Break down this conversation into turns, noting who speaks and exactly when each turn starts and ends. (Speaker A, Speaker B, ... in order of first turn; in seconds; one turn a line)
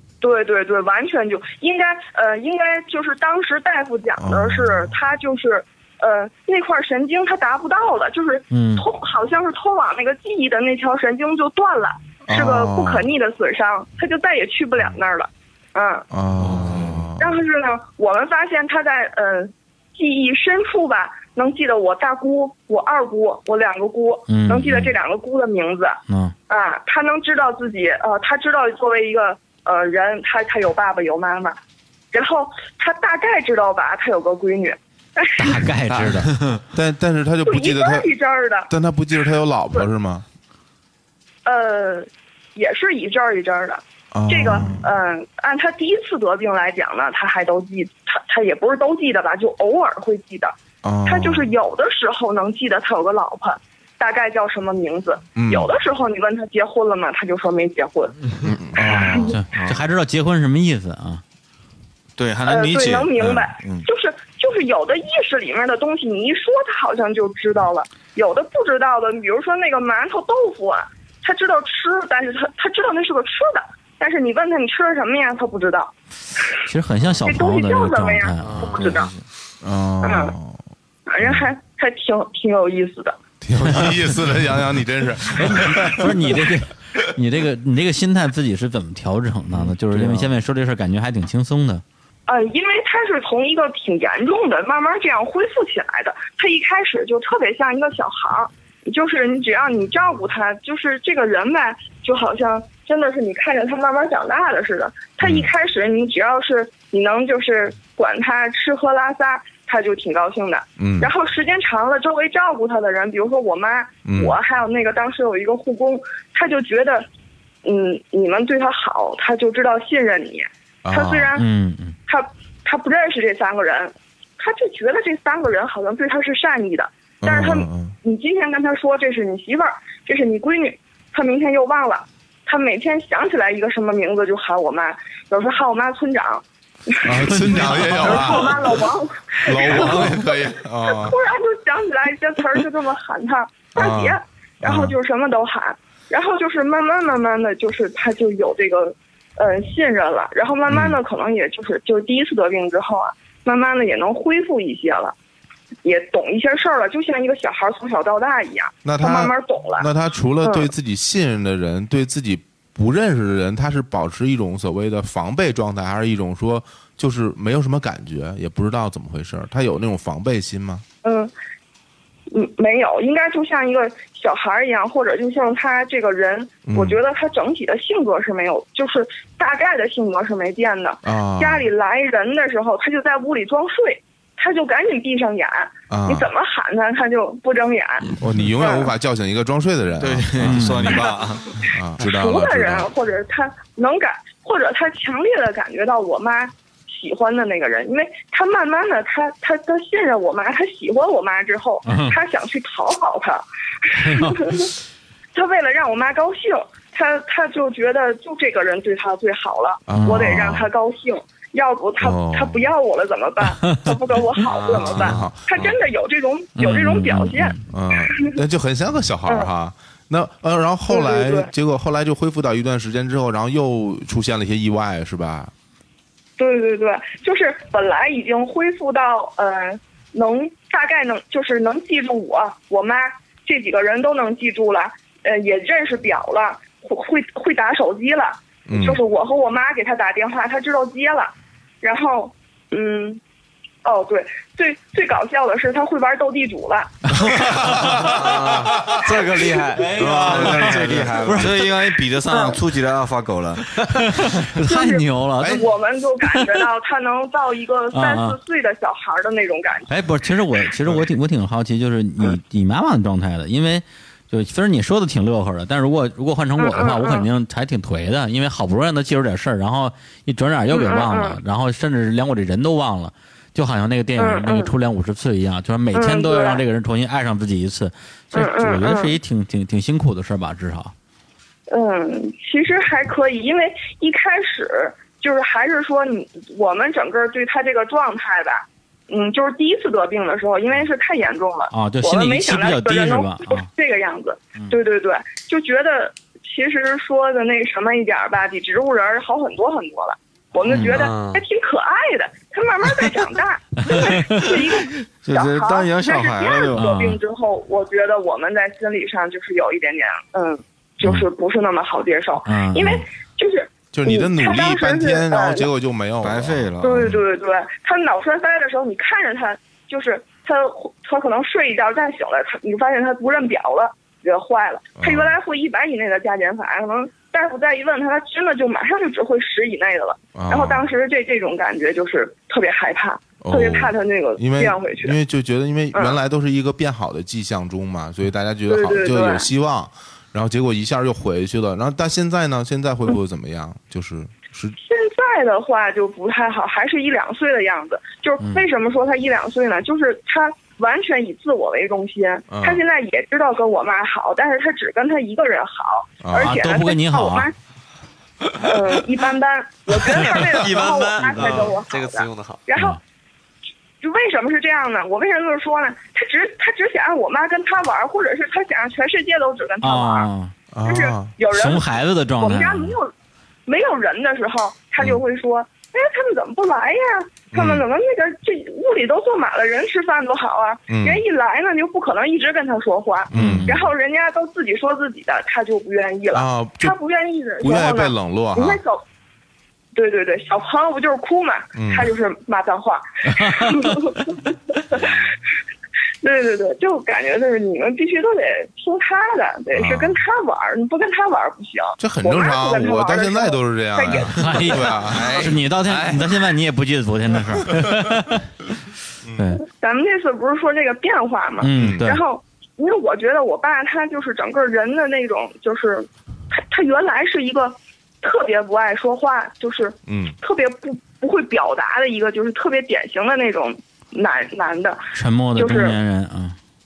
Speaker A: 0.2-16.1
Speaker B: 4.2-4.9
Speaker C: 8.5-8.9
Speaker B: 12.3-13.1
Speaker B: 16.1-17.4
Speaker D: 16.4-17.1
Speaker A: 17.2-31.6
Speaker C: 24.3-24.9
Speaker C: 26.1-26.3
Speaker A: 32.1-35.6
Speaker C: 35.4-36.4
Speaker B: 36.7-38.1
Speaker A: 37.5-38.7
Speaker B: 38.7-40.2
Speaker A: 41.5-58.2
Speaker B: 44.1-44.9
Speaker B: 50.8-51.5
Speaker B: 55.4-55.7
Speaker B: 58.5-59.4
Speaker C: 58.9-61.2
Speaker A: 59.0-59.3
Speaker D: 59.5-59.8
Speaker D: 62.2-63.9
Speaker A: 62.5-75.9
Speaker C: 76.7-78.8
Speaker A: 77.2-79.1
Speaker E: 78.5-78.8
Speaker D: 78.8-79.2
Speaker B: 79.6-80.6
Speaker A: 80.0-80.3
Speaker A: 81.1-83.2
Speaker B: 81.2-81.5
Speaker B: 83.4-86.2
Speaker C: 83.6-84.4
Speaker C: 85.3-91.8
Speaker D: 89.9-90.3
Speaker A: 92.3-117.1
Speaker B: 105.2-105.5
Speaker B: 110.8-111.1
Speaker B: 114.0-114.4
Speaker A: 117.7-121.5
Speaker B: 120.8-121.3
Speaker C: 121.3-122.0
Speaker A: 122.1-155.2
Speaker B: 127.2-128.0
Speaker B: 137.0-138.9
Speaker C: 137.3-138.3
Speaker B: 139.4-141.2
Speaker C: 139.8-140.2
Speaker B: 143.7-145.0
Speaker B: 150.7-151.0
Speaker A: 155.8-159.9
Speaker B: 158.8-170.8
Speaker A: 160.4-160.7
Speaker A: 171.0-171.3
Speaker A: 172.3-188.9
Speaker B: 176.7-177.0
Speaker B: 181.0-181.7
Speaker B: 185.9-186.3
Speaker B: 188.2-191.1
Speaker D: 190.0-191.6
Speaker C: 190.4-191.0
Speaker B: 191.7-192.9
Speaker A: 192.0-204.7
Speaker C: 201.9-202.2
Speaker C: 204.0-204.5
Speaker A: 205.3-217.6
Speaker B: 209.9-210.7
Speaker C: 209.9-210.4
Speaker B: 212.0-212.7
Speaker E: 214.5-215.3
Speaker B: 214.7-215.8
Speaker C: 216.6-217.6
Speaker B: 217.7-225.5
Speaker A: 218.1-218.4
Speaker A: 220.9-221.5
Speaker A: 226.4-243.2
Speaker B: 238.7-239.0
Speaker A: 243.8-247.4
Speaker B: 247.5-248.1
Speaker C: 247.7-248.0
Speaker E: 248.1-251.1
Speaker B: 248.7-249.0
Speaker D: 249.9-253.8
Speaker C: 250.0-251.6
Speaker A: 252.3-252.6
Speaker C: 253.9-255.6
Speaker A: 254.7-259.9
Speaker C: 257.9-258.4
Speaker C: 259.9-280.9
Speaker A: 266.6-267.3
Speaker A: 270.7-271.4
Speaker A: 274.2-274.7
Speaker A: 275.9-276.6
Speaker A: 278.3-279.2
Speaker A: 281.7-315.7
Speaker C: 291.7-293.7
Speaker E: 300.8-301.4
Speaker C: 303.9-304.4
Speaker D: 305.2-306.9
Speaker C: 306.8-307.2
Speaker C: 312.5-313.0
Speaker B: 313.9-317.2
Speaker D: 316.2-317.1
Speaker A: 316.8-335.2
Speaker B: 324.9-325.3
Speaker B: 330.3-330.9
Speaker B: 333.4-344.8
Speaker A: 338.7-339.5
Speaker A: 344.8-357.5
Speaker B: 352.5-352.8
Speaker B: 356.2-356.6
Speaker C: 356.3-357.5
Speaker A: 358.6-363.0
Speaker E: 360.2-362.6
Speaker A: 364.0-370.3
Speaker C: 369.8-370.5
Speaker B: 370.7-371.4
Speaker A: 370.8-373.1
Speaker C: 371.5-373.0
Speaker A: 373.7-389.0
Speaker B: 377.5-377.9
Speaker B: 380.9-381.2
Speaker B: 383.3-383.9
Speaker C: 383.4-383.8
Speaker B: 386.3-387.0
Speaker B: 387.6-388.8
Speaker A: 389.9-394.4
Speaker B: 391.7-392.1
Speaker A: 394.9-395.2
Speaker A: 396.2-404.8
Speaker B: 399.8-400.2
Speaker B: 402.0-406.2
Speaker C: 404.3-408.4
Speaker C: 409.4-409.6
Speaker A: 409.6-425.1
Speaker C: 411.6-412.2
Speaker B: 411.7-412.1
Speaker B: 420.1-420.4
Speaker C: 425.1-426.6
Speaker A: 425.6-426.0